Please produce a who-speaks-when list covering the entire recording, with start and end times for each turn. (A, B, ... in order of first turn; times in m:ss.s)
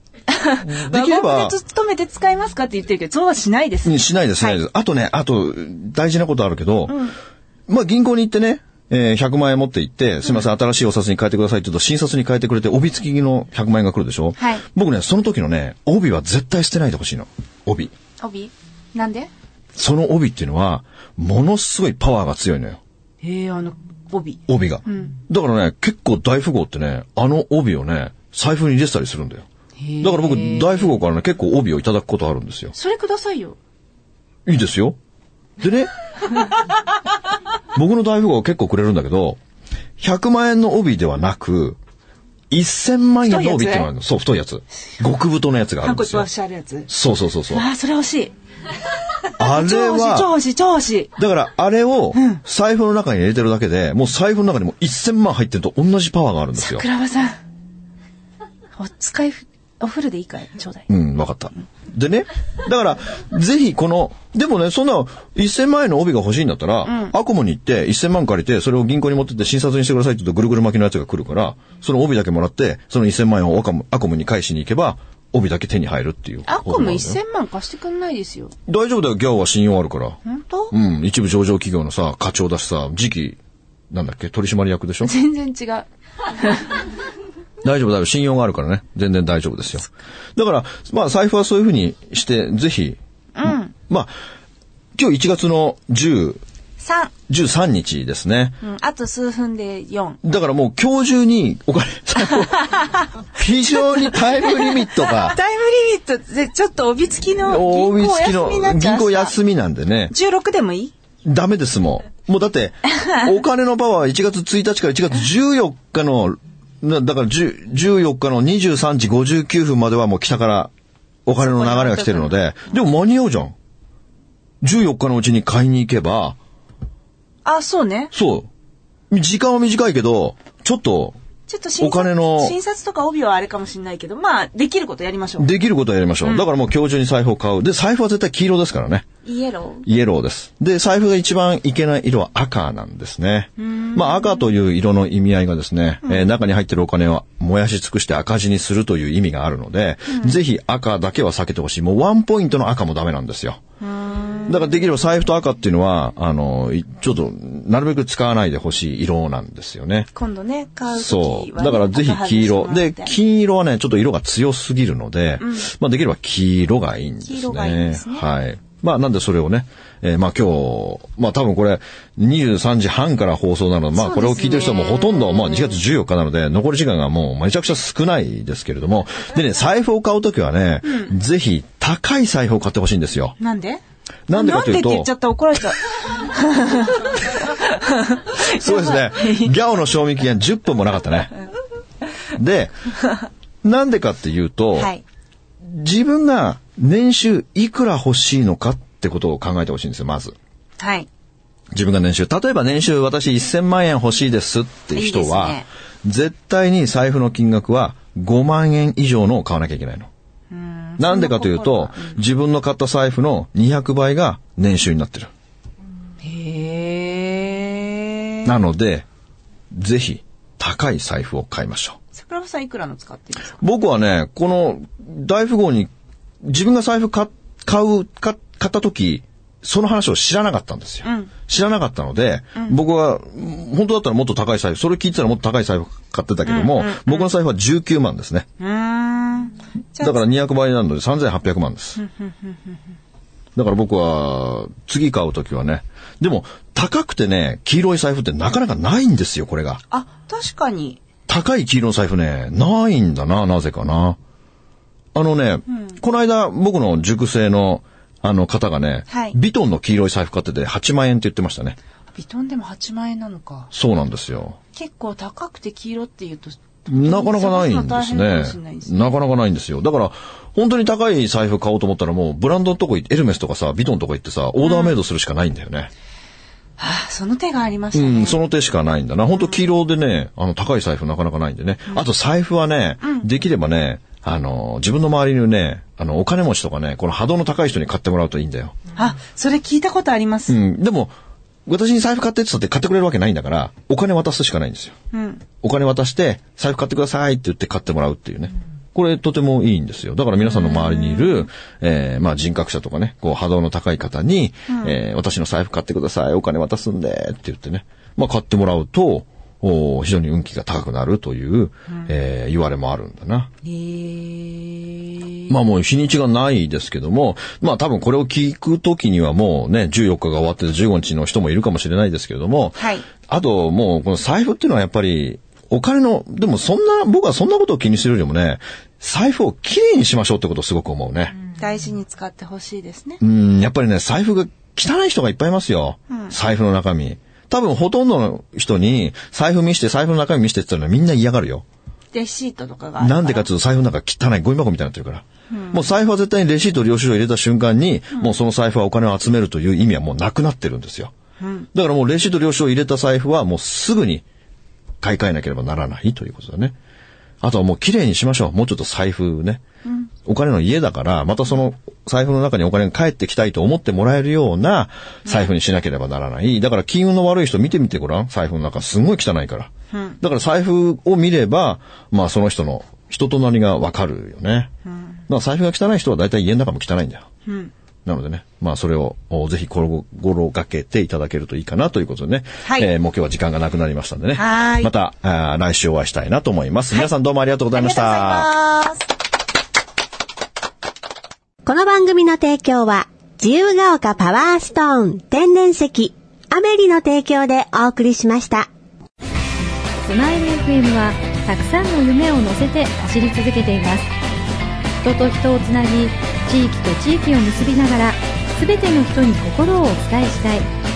0:00.3-0:04.6 A
0:00.6-0:01.6 B
0:03.8-0:07.0 B
0:06.9-0:07.2 A
0:07.7-0:17.9 B
0:14.4-0:14.6 A
0:18.2-0:19.3 A
0:19.8-0:22.8 B
0:23.2-0:25.2 A
0:24.5-0:29.4 B
0:29.8-0:31.0 A
0:30.0-0:32.7 B
0:32.7-0:33.6 A
0:34.5-0:35.0 B
0:35.6-0:35.9 B
0:37.8-0:39.4 B
0:40.0-0:41.8 B
0:42.5-0:46.3 B
0:43.2-0:43.9 A
0:45.8-0:46.9 A
0:46.9-0:47.7 B
0:47.5-0:48.3 A
0:49.4-0:50.3 B
0:49.4-0:51.1 A
0:51.2-0:56.8 B
0:52.1-0:52.4 A
0:56.6-0:57.4 A
0:58.8-1:00.9 A
1:00.9-1:17.2 B
1:06.9-1:07.1 A
1:16.5-1:18.5 A
1:18.7-1:20.2 B
1:20.2-1:20.7 A
1:20.7-1:23.4 B
1:23.9-1:25.1 B
1:25.0-1:25.9 A
1:26.4-1:26.8 A
1:27.6-1:34.1 B
1:33.4-1:33.7 A
1:35.0-1:36.4 B
1:36.8-1:37.1 A
1:37.3-1:38.6 B
1:38.6-1:40.2 A
1:40.2-1:42.7 B
1:42.6-1:43.0 A
1:43.4-1:45.4 B
1:43.7-1:49.4 A
1:47.5-1:50.1 B
1:50.1-1:50.9 A
1:51.2-2:00.7 B
2:01.3-2:03.5 B
2:01.4-2:02.3 A
2:04.6-2:06.4 B
2:07.4-2:08.1 A
2:08.1-2:08.5 B
2:09.1-2:11.2 B
2:11.5-2:15.5 A
2:11.8-2:12.6 B
2:15.4-2:19.1 B
2:19.2-2:19.9 A
2:19.8-2:33.6 B
2:23.6-2:24.5 A
2:30.1-2:30.4 A
2:33.8-2:34.8 A
2:34.5-2:40.1 B
2:40.2-2:43.2 A
2:40.9-3:03.4 B
2:45.4-2:45.7 A
2:47.2-2:48.2 A
2:54.0-2:55.8 A
3:00.8-3:01.1 A
3:03.4-3:09.6 A
3:04.3-3:05.1 B
3:08.4-3:11.3 B
3:12.3-3:12.8 B
3:13.6-3:14.9 B
3:14.8-3:15.0 A
3:15.6-3:20.4 B
3:20.8-3:21.1 A
3:21.7-3:30.1 B
3:24.9-3:25.7 A
3:30.5-3:32.2 A
3:31.0-3:35.3 B
3:36.2-3:38.5 A
3:38.4-3:39.1 B
3:39.7-3:42.0 B
3:42.1-3:43.6 A
3:43.6-3:45.9 B
3:46.4-3:58.5 B
3:51.0-3:51.3 A
3:56.4-3:57.3 A
3:58.6-4:00.2 A
4:00.0-4:02.0 B
4:02.0-4:02.8 A
4:03.6-4:09.8 B
4:09.9-4:11.0 A
4:11.3-4:14.2 B
4:15.1-4:21.8 B
4:19.1-4:19.4 A
4:22.1-4:23.7 A
4:23.7-4:24.6 B
4:24.7-4:29.2 A
4:26.9-4:35.9 B
4:34.6-4:35.0 A
4:36.8-4:38.4 A
4:37.9-4:48.7 B
4:49.0-4:50.6 A
4:50.5-4:54.9 B
4:55.1-4:55.4 A
4:55.6-5:13.5 B
5:00.5-5:01.4 A
5:04.7-5:05.0 A
5:13.6-5:15.5 A
5:15.5-5:31.4 B
5:22.8-5:23.0 A
5:31.6-5:33.2 A
5:33.2-5:41.6 B
5:42.1-5:43.5 A
5:43.0-5:51.1 B
5:45.5-5:45.8 A
5:51.4-5:51.7 A
5:51.7-5:54.2 B
5:55.0-5:56.7 B
5:57.4-5:59.6 B
6:00.2-6:14.7 B
6:09.9-6:10.2 A
6:14.9-6:15.1 A
6:15.3-6:17.3 B
6:17.5-6:17.7 A
6:18.1-6:28.5 B
6:22.6-6:22.9 A
6:24.4-6:24.9 A
6:27.7-6:29.1 A
6:31.6-6:38.7 C
6:40.0-6:44.1 D
6:45.0-6:50.7 D